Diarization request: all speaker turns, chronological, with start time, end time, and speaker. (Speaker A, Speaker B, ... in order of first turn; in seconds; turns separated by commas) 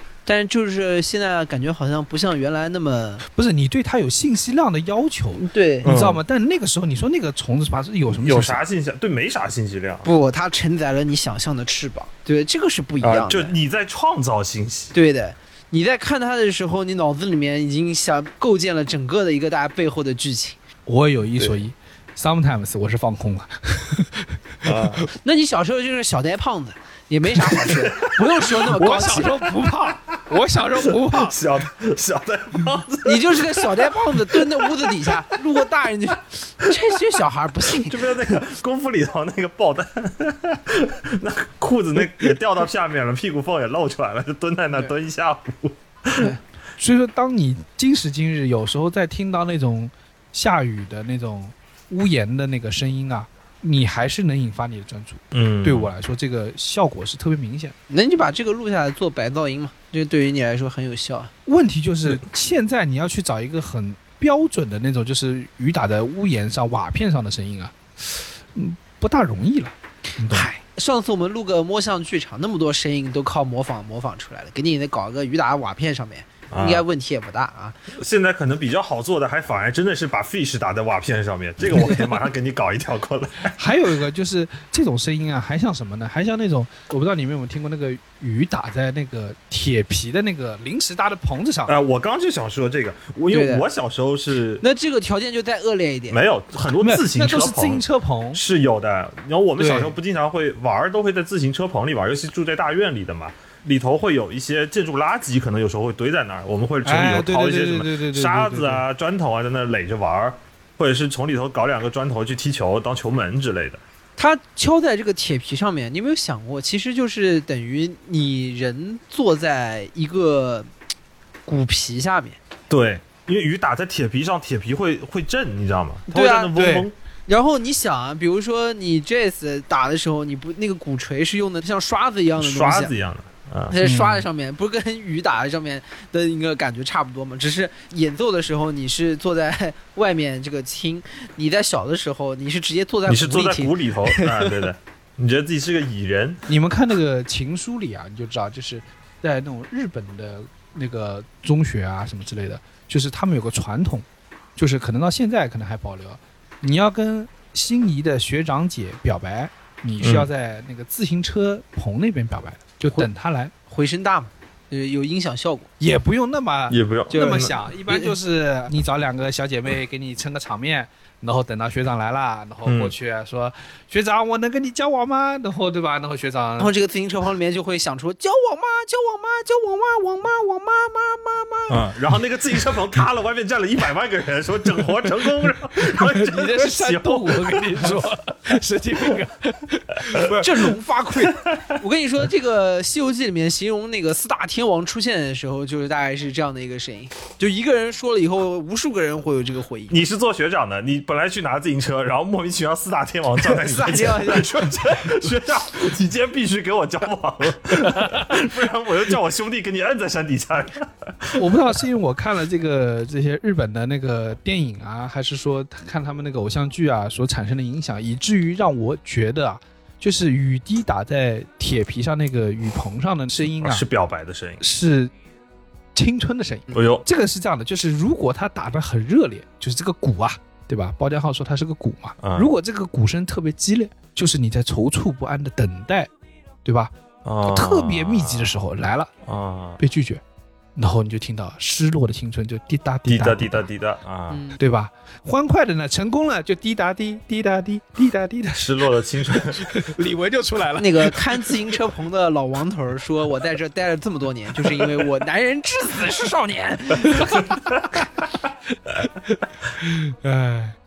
Speaker A: 0.2-3.2, Speaker B: 3.3-8.6, Speaker A: 5.4-5.9, Speaker C: 5.8-6.2, Speaker C: 8.2-10.1, Speaker A: 10.0-13.6, Speaker C: 13.0-14.9, Speaker A: 14.9-20.6, Speaker B: 20.9-25.0, Speaker C: 24.6-25.1, Speaker A: 25.2-29.4, Speaker C: 27.6-29.3, Speaker B: 28.7-31.4, Speaker C: 31.0-35.2, Speaker A: 33.0-38.1, Speaker C: 37.7-46.3, Speaker B: 46.8-57.7, Speaker C: 55.3-55.9, Speaker A: 57.9-61.3, Speaker B: 61.5-70.5, Speaker A: 70.3-77.8, Speaker C: 76.5-76.8, Speaker C: 77.9-83.6, Speaker B: 83.5-91.7, Speaker C: 91.7-94.6, Speaker A: 93.3-93.6, Speaker A: 94.6-96.2, Speaker C: 96.1-113.8, Speaker B: 96.8-98.4, Speaker B: 99.6-100.0, Speaker B: 106.8-108.8, Speaker A: 114.2-120.7, Speaker A: 121.5-122.4, Speaker C: 122.7-126.9, Speaker A: 126.1-132.9, Speaker C: 132.4-133.7, Speaker A: 133.7-144.6, Speaker B: 133.8-134.2, Speaker C: 143.1-146.4, Speaker B: 146.5-163.5, Speaker C: 160.0-160.3, Speaker A: 163.7-165.7, Speaker B: 165.8-176.7, Speaker C: 166.7-167.6, Speaker A: 167.1-168.1, Speaker C: 172.6-172.9, Speaker A: 176.6-181.8, Speaker C: 181.7-188.0, Speaker B: 185.8-190.7, Speaker A: 190.3-199.9, Speaker C: 199.9-211.6, Speaker A: 203.4-205.2, Speaker B: 211.3-223.8, Speaker C: 223.6-224.6, Speaker B: 224.6-225.1, Speaker B: 225.9-236.1, Speaker C: 226.7-227.1, Speaker C: 232.2-232.5, Speaker B: 236.6-236.9, Speaker C: 237.2-238.6, Speaker B: 237.4-239.1, Speaker C: 239.2-239.8, Speaker B: 239.8-240.2, Speaker B: 240.8-243.7, Speaker C: 243.1-244.4, Speaker A: 244.3-244.6, Speaker B: 244.6-251.5, Speaker C: 248.5-249.7, Speaker A: 250.8-257.6, Speaker B: 258.9-260.8